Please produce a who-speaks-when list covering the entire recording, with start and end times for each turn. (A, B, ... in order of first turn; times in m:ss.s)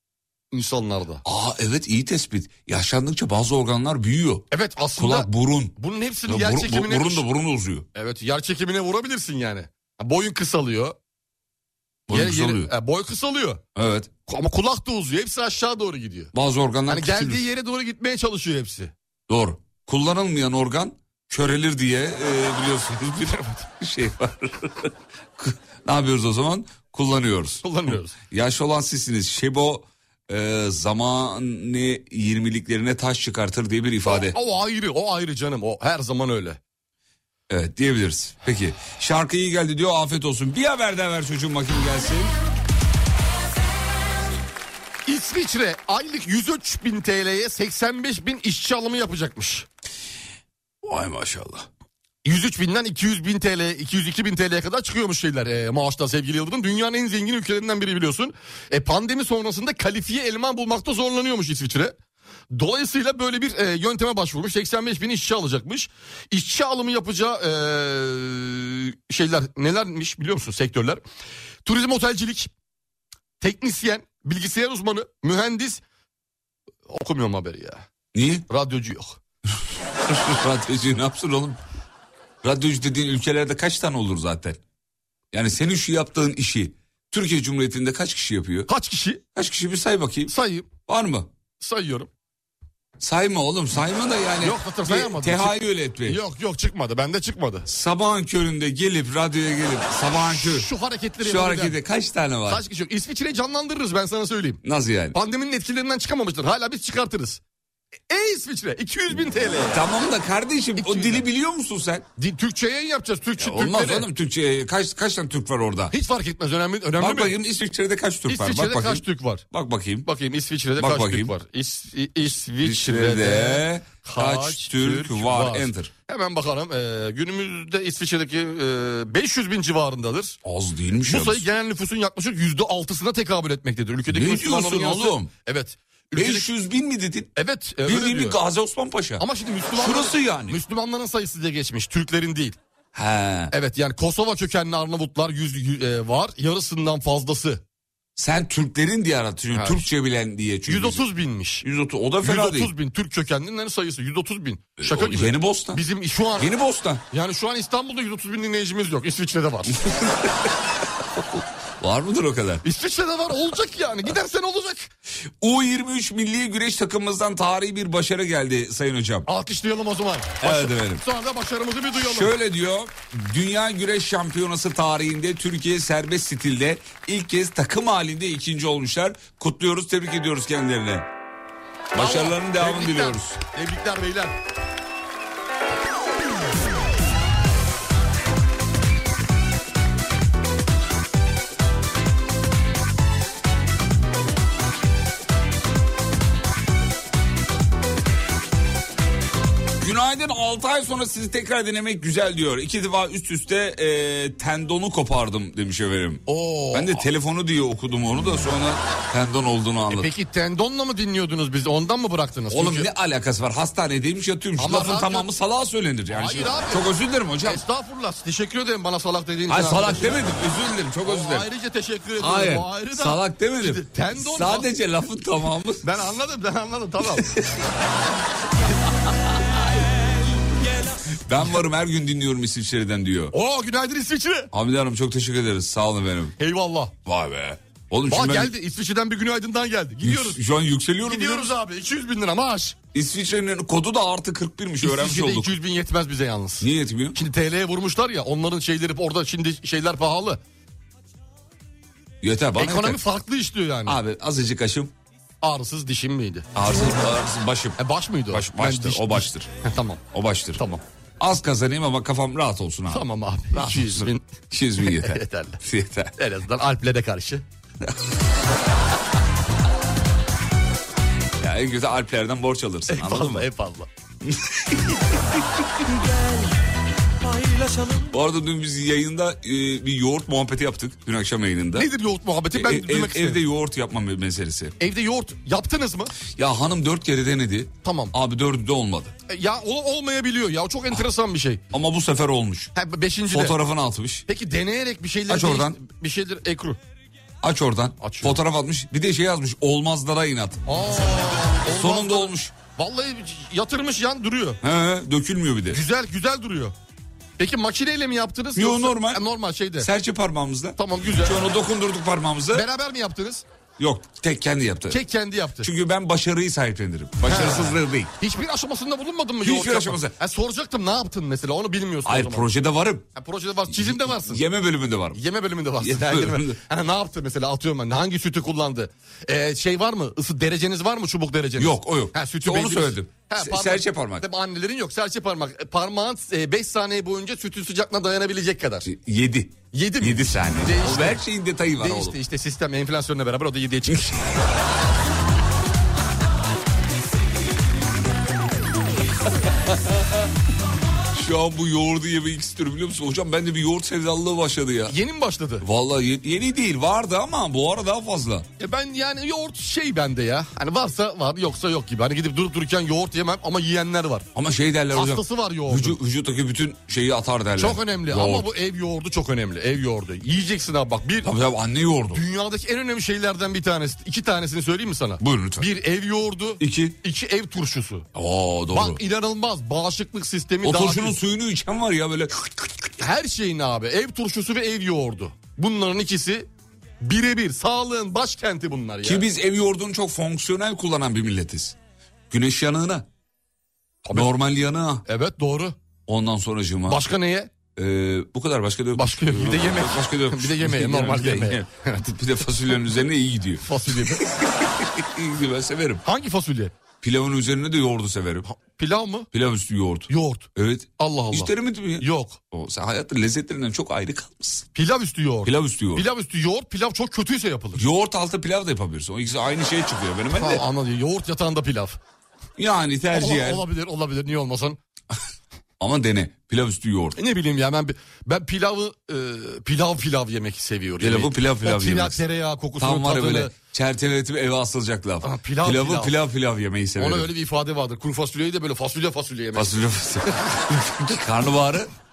0:00.5-0:01.2 A
0:01.2-0:05.8 B
0:04.5-0:07.2 A
0:06.3-0:07.9 B
0:08.0-0:11.0 A
0:12.1-0:12.7 B
0:12.1-0:13.6 A
0:13.8-0:14.1 B
0:14.3-0:16.3 A
0:16.3-0:17.4 B
0:16.9-0:18.9 A
0:19.3-0:27.6 B
0:23.3-0:23.6 A
0:27.6-0:28.2 A
0:28.3-0:34.4 B
0:34.1-0:36.6 A
0:37.5-0:42.4 B
0:45.1-0:49.7 A
0:50.8-0:51.7 B
0:52.2-1:02.0 A
1:02.5-1:11.0 A
1:11.6-1:12.5 A
1:13.4-1:15.8 A
1:16.9-1:17.8 A
1:18.1-1:18.4 B
1:18.5-1:19.2 A
1:20.1-1:21.6 B
1:22.4-1:24.6 B
1:25.3-1:28.7 B
1:28.7-1:29.2 A
1:29.4-1:30.3 B
1:30.3-1:30.7 A
1:30.9-1:31.3 B
1:31.6-1:32.1 A
1:33.0-1:36.2 B
1:34.4-1:37.7 A
1:37.7-1:40.7 B
1:40.1-1:41.8 A
1:41.2-1:42.6 B
1:42.5-1:44.6 A
1:44.6-1:45.2 B
1:45.1-1:47.4 A
1:48.1-1:49.8 A
1:49.7-1:52.1 B
1:50.8-1:51.3 A
1:52.2-1:54.1 A
1:53.4-1:55.9 B
1:55.9-1:57.4 A
1:57.0-2:00.1 B
1:58.3-1:59.4 A
2:00.0-2:10.4 A
2:00.8-2:01.3 B
2:02.6-2:05.9 B
2:10.4-2:11.5 B
2:11.1-2:16.5 A
2:14.1-2:15.3 B
2:16.2-2:17.3 B
2:17.4-2:18.4 A
2:17.8-2:20.6 B
2:19.2-2:22.6 A
2:22.9-2:23.5 B
2:23.5-2:27.6 A
2:28.2-2:31.0 B
2:29.5-2:29.8 A
2:30.7-2:31.6 A
2:31.6-2:32.7 B
2:32.2-2:36.5 A
2:34.8-2:35.8 B
2:36.4-2:37.0 B
2:37.1-2:39.8 A
2:39.7-2:40.5 B
2:41.2-2:42.6 B
2:42.6-2:44.9 A
2:45.4-2:49.3 B
2:49.3-2:52.3 A
2:50.4-2:51.0 B
2:52.0-3:01.1 B
3:01.9-3:03.4 B
3:01.9-3:04.4 A
3:19.8-3:30.1 B
3:26.3-3:27.0 A
3:29.9-3:32.9 A
3:32.5-3:37.6 B
3:34.6-3:35.3 A
3:36.1-3:36.9 A
3:37.4-3:40.3 A
3:39.5-3:41.5 B
3:41.0-3:44.7 A
3:42.2-3:45.9 B
3:45.8-3:47.3 A
3:47.2-3:47.4 B
3:51.3-3:53.3 B
3:53.3-3:54.5 A
3:54.5-3:56.4 B
3:56.4-3:56.9 A
3:57.0-3:58.5 B
3:58.1-4:00.4 A
4:00.0-4:01.6 B
4:01.0-4:02.8 A
4:02.9-4:05.5 B
4:04.8-4:10.4 A
4:06.6-4:07.2 B
4:12.2-4:13.0 B
4:12.6-4:14.0 A
4:13.9-4:14.9 B
4:15.4-4:16.5 A
4:16.6-4:17.8 B
4:17.8-4:20.0 A
4:18.3-4:19.5 B
4:20.1-4:20.6 B
4:20.6-4:20.8 A
4:21.2-4:26.2 B
4:22.9-4:24.3 A
4:24.8-4:25.6 A
4:26.2-4:27.4 A
4:31.4-4:33.5 B
4:32.9-4:33.9 A
4:34.2-4:35.0 B
4:36.0-4:36.3 A
4:37.2-4:38.1 A
4:38.1-4:41.9 B
4:41.8-4:43.4 A
4:42.5-4:44.8 B
4:44.8-4:46.2 A
4:46.3-4:49.1 B
4:47.8-4:48.1 A
4:49.3-4:51.6 A
4:51.7-4:52.7 B
4:52.8-4:53.6 A
4:53.3-4:54.2 B
4:54.3-4:56.8 A
4:55.3-4:55.8 B
4:57.4-5:00.6 B
4:58.0-4:58.4 A
5:00.7-5:04.6 A
5:01.7-5:02.6 B
5:04.6-5:05.8 B
5:05.7-5:06.8 A
5:07.4-5:09.9 A
5:08.6-5:09.2 B
5:09.8-5:12.7 B
5:10.8-5:11.4 A
5:12.5-5:13.4 A
5:13.8-5:15.0 B
5:14.9-5:15.7 A
5:15.6-5:18.1 B
5:17.2-5:22.5 A
5:19.4-5:20.2 B
5:22.0-5:23.0 B
5:23.2-5:24.4 A
5:23.7-5:25.2 B
5:25.1-5:38.9 A
5:25.8-5:26.6 B
5:31.6-5:34.2 B
5:38.8-5:42.2 B
5:39.7-5:41.2 A
5:41.8-5:44.3 A
5:51.1-5:55.0 B
5:54.9-5:55.6 A
5:55.6-5:58.5 B
5:58.6-6:04.3 A
6:04.4-6:08.5 B
6:04.9-6:06.0 A
6:07.6-6:11.3 A
6:11.2-6:12.2 B
6:12.1-6:18.1 A
6:15.2-6:15.7 B
6:16.6-6:17.0 B
6:18.2-6:19.0 B
6:18.7-6:21.2 A
6:20.6-6:22.7 B
6:23.0-6:26.5 A
6:27.0-6:29.2 A
6:29.0-6:31.8 B
6:32.3-6:33.1 B
6:34.0-6:34.3 A
6:34.1-6:35.0 B
6:35.1-6:35.8 A
6:36.1-6:37.0 B
6:36.9-6:37.5 A
6:37.8-6:46.0 B
6:39.0-6:42.0 A
6:43.6-6:44.2 A
6:46.0-6:46.7 A
6:47.0-6:48.5 B
6:48.5-6:49.3 A
6:49.3-6:54.7 B
6:50.1-6:52.4 A
6:54.8-6:57.8 A
6:55.4-6:56.1 B
6:57.8-7:00.6 B
7:00.4-7:02.0 A
7:02.6-7:03.6 B
7:03.1-7:04.8 A
7:05.8-7:07.2 B
7:07.2-7:13.5 A
7:11.0-7:12.2 B
7:12.8-7:17.3 B
7:15.2-7:16.2 A
7:17.0-7:19.7 A
7:19.5-7:21.9 B